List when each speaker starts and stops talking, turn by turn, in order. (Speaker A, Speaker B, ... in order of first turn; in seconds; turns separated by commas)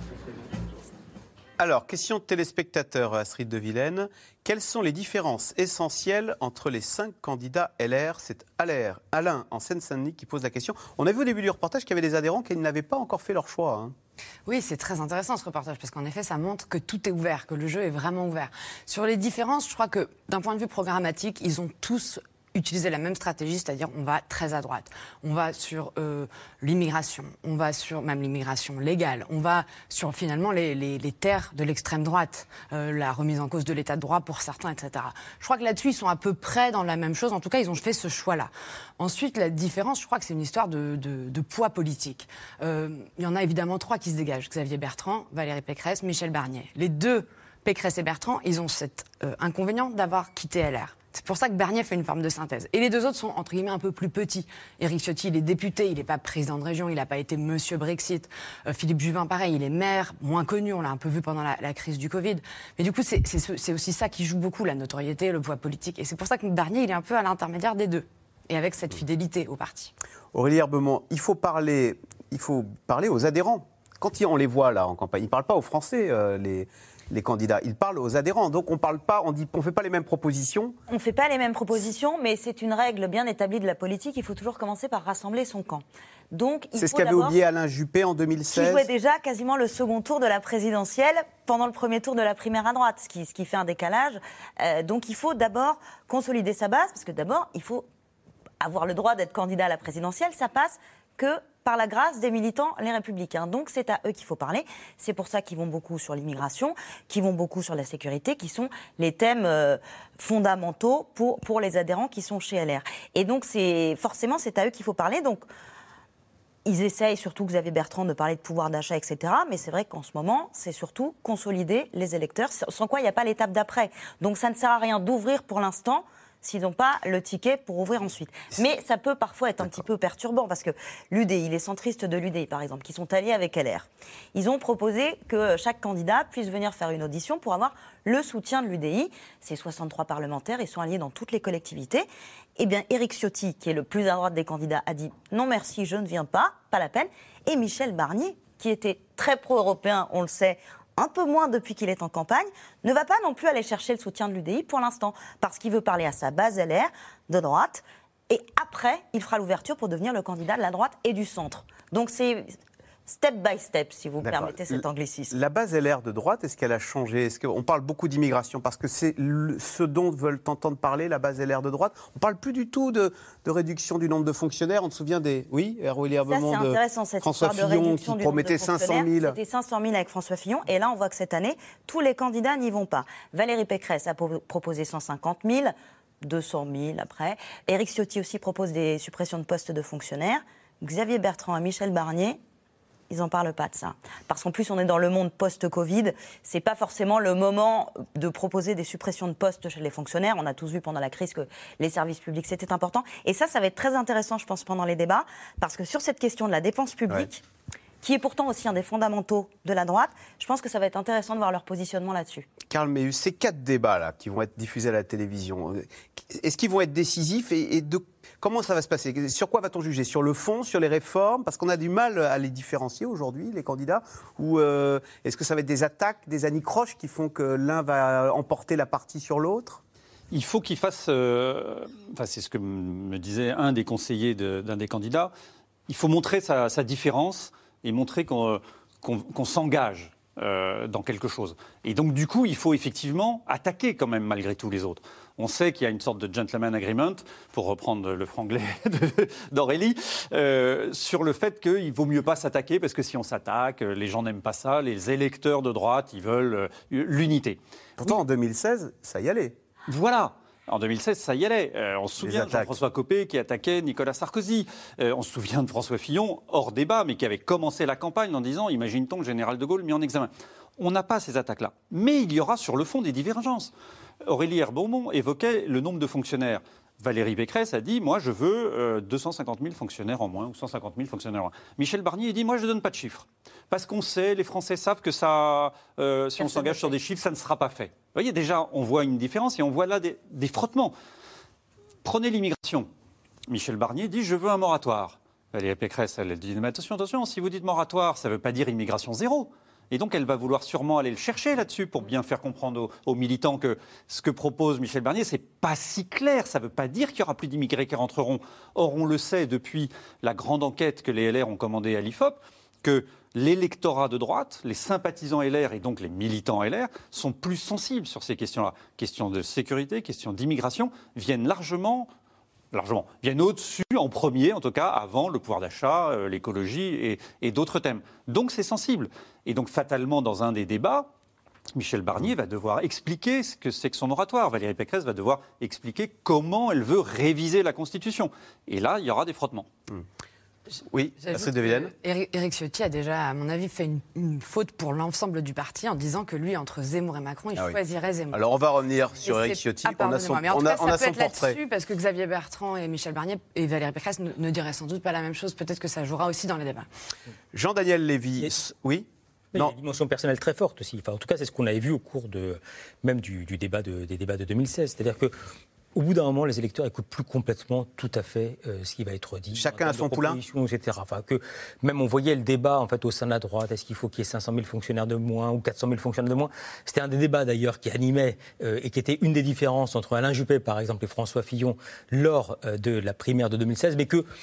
Speaker A: 1.6-13.9, Speaker B: 14.4-69.9, Speaker A: 70.3-80.8, Speaker C: 80.9-87.4, Speaker A: 86.8-88.9, Speaker C: 88.5-97.9, Speaker C: 98.6-115.4, Speaker C: 116.7-162.5, Speaker C: 163.1-165.3, Speaker A: 164.2-179.4, Speaker C: 176.3-192.4, Speaker C: 193.1-207.4, Speaker C: 208.0-212.5, Speaker A: 212.7-229.8, Speaker D: 230.3-235.3, Speaker D: 235.9-258.2, Speaker A: 258.0-259.6, Speaker D: 259.9-273.7, Speaker A: 262.2-262.7, Speaker D: 274.2-290.9, Speaker C: 286.4-286.9, Speaker D: 292.0-292.9, Speaker D: 293.5-322.1, Speaker D: 322.7-331.1, Speaker D: 331.7-339.7, Speaker A: 340.9-341.9, Speaker B: 341.2-348.4, Speaker A: 348.3-351.6, Speaker B: 349.2-356.9, Speaker A: 357.5-359.7, Speaker E: 359.5-365.3, Speaker E: 365.9-384.2, Speaker A: 369.5-370.4